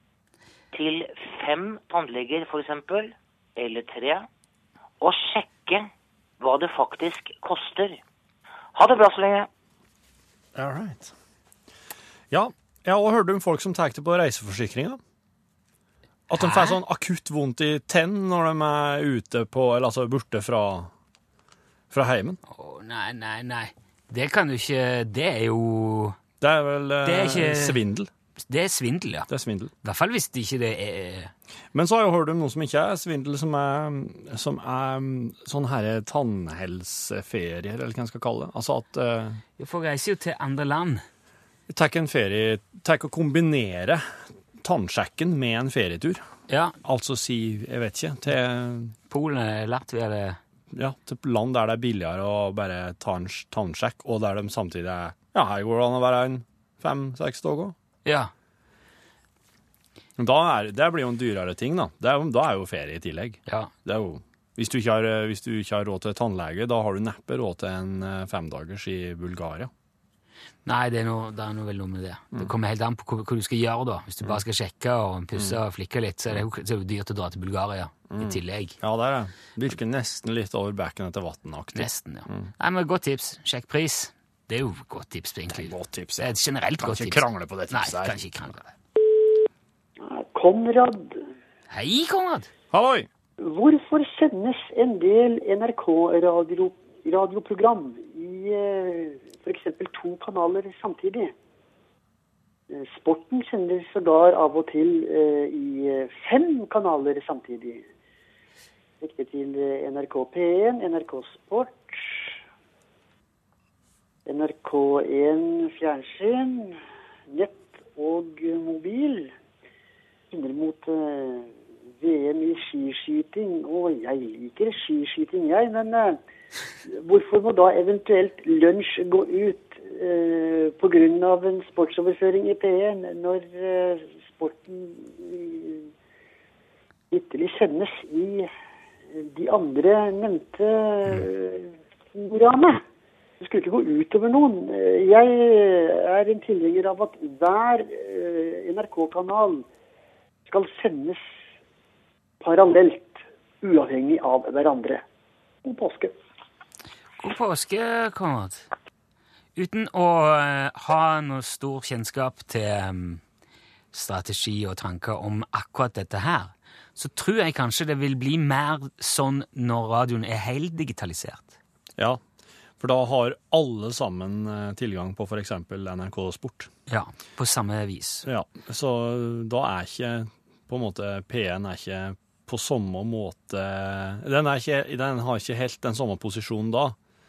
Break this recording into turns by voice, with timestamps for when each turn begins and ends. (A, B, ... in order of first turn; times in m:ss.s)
0:00.7-0:04.3 A
0:05.0-0:05.9 A
0:06.4-0:08.0 A
0:08.7-0:09.5 A
0:10.5-0:11.1 B
0:12.3-0:15.0 B
0:16.3-0:20.9 B
0:16.3-0:16.8 C
0:21.9-0:22.4 B
0:22.5-0:26.2 C
0:26.4-0:28.1 B
0:27.0-0:27.8 C
0:28.4-0:29.3 C
0:29.3-0:29.7 B
0:29.8-0:31.3 C
0:31.7-0:39.4 B
0:39.6-0:41.0 C
0:41.7-0:44.0 B
0:44.6-0:46.2 B
0:46.5-0:46.8 C
0:46.8-0:48.9 B
0:49.1-0:50.4 C
0:50.7-0:57.7 B
0:58.0-0:58.3 C
1:00.2-1:09.7 B
1:03.5-1:03.7 C
1:10.6-1:18.8 C
1:18.1-1:22.5 B
1:21.8-1:28.7 C
1:25.5-1:28.2 B
1:30.0-1:31.2 D
1:31.7-1:32.5 C
1:32.7-1:33.1 B
1:33.4-1:41.3 D
1:42.7-1:47.8 D
1:49.0-1:52.3 D
1:54.2-1:56.8 D
1:57.3-1:59.3 D
2:00.3-2:01.5 D
2:02.0-2:06.2 D
2:06.9-2:15.9 D
2:17.1-2:18.5 D
2:19.1-2:22.8 D
2:23.4-2:29.6 D
2:30.5-2:31.2 D
2:32.4-2:35.0 D
2:35.6-2:36.1 D
2:37.2-2:38.6 C
2:39.6-2:43.2 C
2:43.9-2:51.6 C
2:52.8-2:56.7 B
2:56.9-2:58.2 C
2:58.2-3:07.0 B